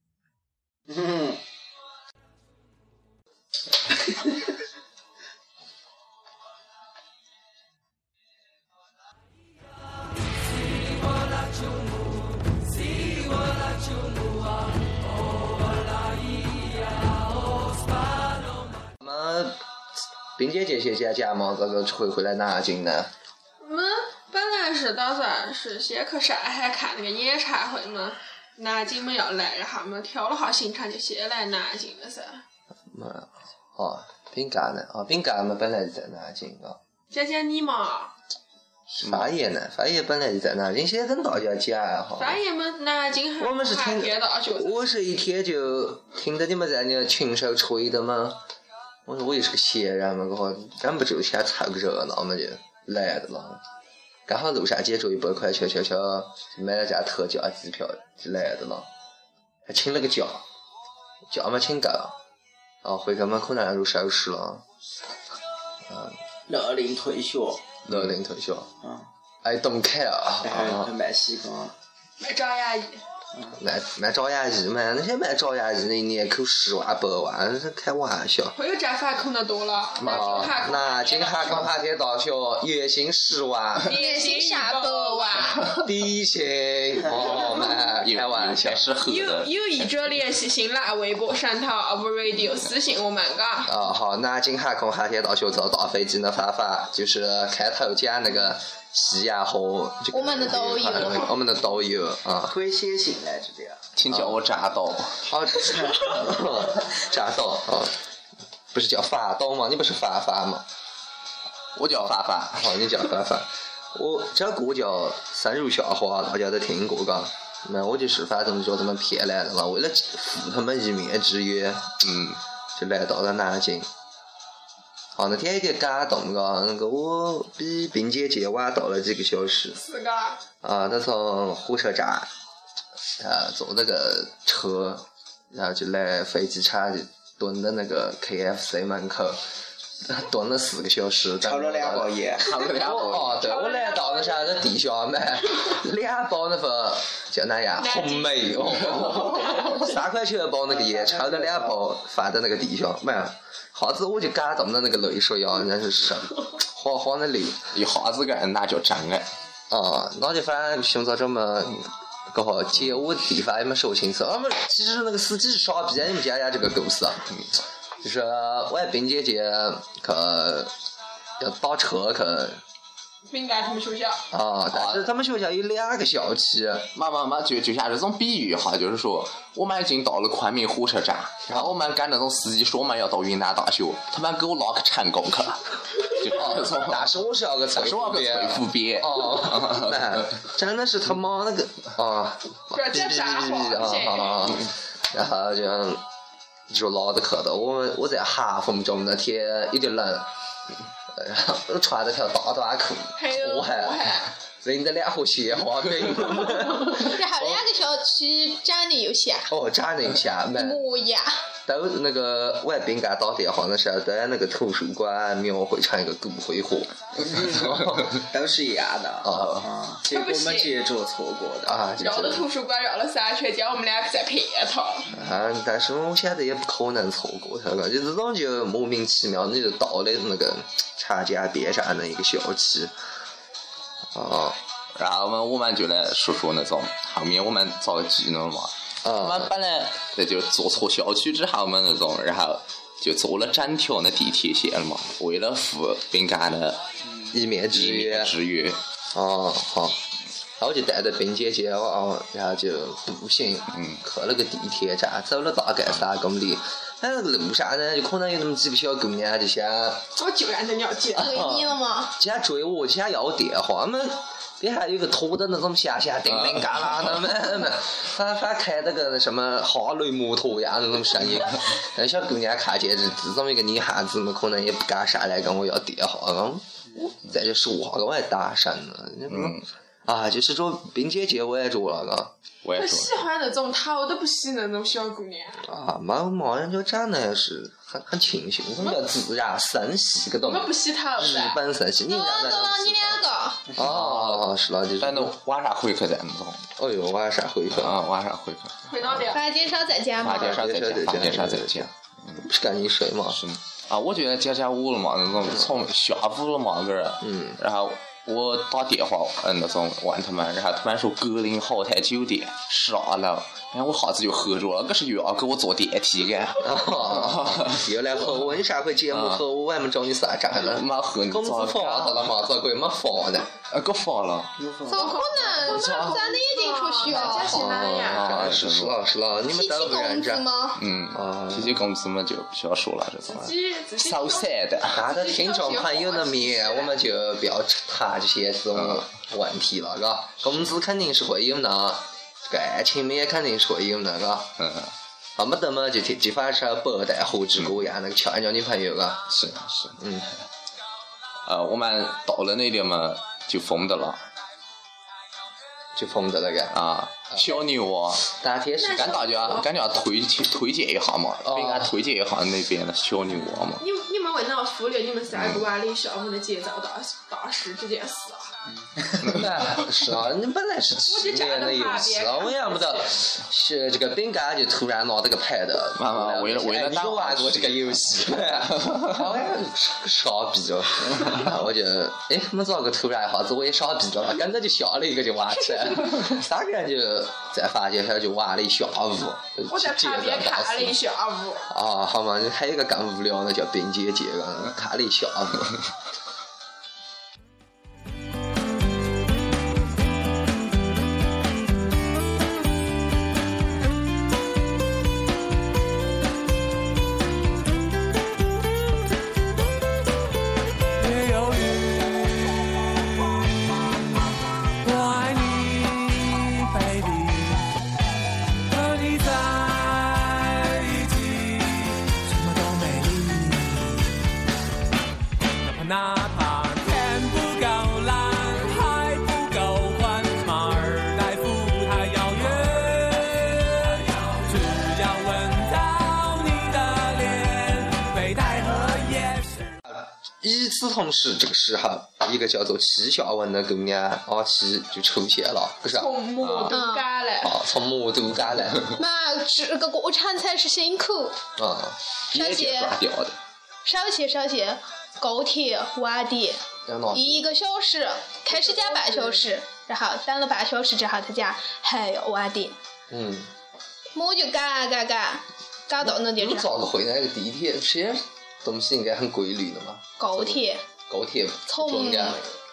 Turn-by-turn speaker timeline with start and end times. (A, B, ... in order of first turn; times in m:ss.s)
0:00.9-0:01.4 A
0:19.0-0:19.6 B
0:20.4-0:23.1 B
0:23.6-0:32.4 C
0:32.9-0:36.8 B
0:37.1-0:38.2 C
0:38.9-0:39.3 D
0:39.0-0:42.4 B
0:42.2-0:44.8 C
0:43.4-0:48.4 B
0:49.1-0:53.6 B
0:54.3-0:58.9 B
0:59.7-1:00.4 B
1:01.3-1:02.2 B
1:02.8-1:04.6 B
1:05.9-1:06.2 B
1:06.5-1:07.6 A
1:07.9-1:08.7 B
1:08.8-1:09.1 A
1:09.4-1:10.9 B
1:10.4-1:11.7 A
1:12.2-1:13.0 C
1:13.6-1:18.6 B
1:18.6-1:21.5 C
1:20.0-1:20.4 D
1:20.0-1:23.9 B
1:23.9-1:25.6 C
1:23.9-1:25.8 E
1:25.8-1:28.9 B
1:28.0-1:30.1 D
1:29.0-1:33.7 C
1:33.6-1:42.5 B
1:40.1-1:41.3 E
1:42.4-1:43.8 A
1:44.0-1:45.2 D
1:44.1-1:44.4 B
1:45.3-1:48.0 B
1:45.6-1:46.2 A
1:48.7-1:50.7 B
1:51.8-1:52.7 D
1:52.6-2:01.9 B
2:02.0-2:02.4 D
2:02.8-2:03.9 B
2:05.2-2:09.8 B
2:09.8-2:10.4 C
2:10.6-2:12.3 B
2:13.2-2:19.4 B
2:20.0-2:22.2 B
2:21.4-2:22.5 A
2:22.4-2:23.4 D
2:22.5-2:24.5 C
2:22.8-2:37.7 B
2:27.8-2:28.5 C
2:30.7-2:31.8 A
2:37.7-2:39.3 D
2:39.7-2:47.4 B
2:48.0-2:50.7 B
2:51.4-2:52.6 B
2:53.3-2:54.2 C
2:54.3-2:56.9 B
2:54.7-2:55.1 D
2:57.0-3:07.1 D
3:01.5-3:01.7 B
3:06.3-3:16.0 B
3:07.7-3:10.2 D
3:12.7-3:14.4 C
3:16.7-3:20.3 B
3:21.1-3:27.6 B
3:23.2-3:24.3 C
3:26.9-3:29.5 E
3:29.5-3:30.8 B
3:30.6-3:31.4 E
3:31.6-3:38.2 B
3:37.2-3:41.9 A
3:39.2-3:39.7 B
3:40.1-3:40.8 C
3:41.7-3:42.5 B
3:42.0-3:45.1 C
3:45.1-3:52.9 B
3:54.1-3:54.6 B
3:55.0-4:06.8 D
3:59.0-3:59.5 B
4:07.3-4:08.3 B
4:07.7-4:08.8 D
4:09.1-4:10.0 B
4:10.6-4:20.0 B
4:13.7-4:14.0 D
4:20.2-4:21.4 C
4:21.2-4:42.3 B
4:21.2-4:22.1 E
4:26.4-4:26.9 D
4:39.3-4:39.7 D
4:42.6-4:43.2 D
4:42.8-4:45.6 C
4:45.6-4:53.2 B
4:50.4-4:51.6 C
4:52.1-4:53.7 E
4:53.7-4:55.4 B
4:53.8-4:54.5 D
4:55.0-4:56.7 D
4:56.8-4:58.0 B
4:57.7-4:59.3 D
4:58.9-4:59.5 C
4:59.3-5:00.8 E
5:00.2-5:02.5 D
5:00.2-5:03.4 B
5:03.3-5:17.8 D
5:07.2-5:07.6 B
5:16.6-5:23.5 B
5:19.1-5:19.4 D
5:20.6-5:22.3 D
5:23.7-5:24.5 D
5:24.6-5:25.6 A
5:24.9-5:27.6 E
5:25.0-5:28.4 C
5:25.6-5:26.2 D
5:27.1-5:29.0 D
5:27.5-5:30.5 B
5:29.5-5:30.8 E
5:30.8-5:35.1 D
5:31.1-5:31.8 B
5:33.3-5:34.5 C
5:34.9-5:44.5 B
5:35.1-5:36.9 C
5:38.8-5:39.0 D
5:44.6-5:44.9 D
5:45.4-5:49.3 B
5:49.3-5:50.0 D
5:50.0-5:50.3 B
5:51.5-5:54.2 D
5:56.0-5:56.8 B
5:56.7-5:58.3 D
5:58.4-5:59.6 B
5:58.8-5:59.7 C
5:58.9-6:03.8 D
6:01.4-6:02.0 B
6:03.8-6:08.6 C
6:05.3-6:05.7 D
6:09.0-6:09.3 A
6:09.2-6:31.0 B
6:11.1-6:13.2 C
6:16.0-6:18.1 D
6:18.8-6:19.1 D
6:29.7-6:31.7 C
6:31.7-6:35.8 B
6:59.3-6:59.6 F
7:02.4-7:03.4 F
7:12.6-7:13.0 F
7:18.2-7:19.0 F
7:19.9-7:26.1 B
7:25.9-7:27.6 C
7:26.4-7:26.8 D
7:26.7-7:27.1 E
7:27.4-7:28.9 B
7:28.9-7:31.4 E
7:31.6-7:32.0 B
7:32.3-7:33.4 D
7:32.3-7:33.0 E
7:33.8-7:36.6 E
7:36.9-7:37.5 B
7:37.1-7:42.8 E
7:38.5-7:39.4 C
7:43.1-7:43.5 B
7:44.2-7:46.7 E
7:46.0-7:52.5 B
7:50.2-7:50.8 E
7:51.7-7:52.4 E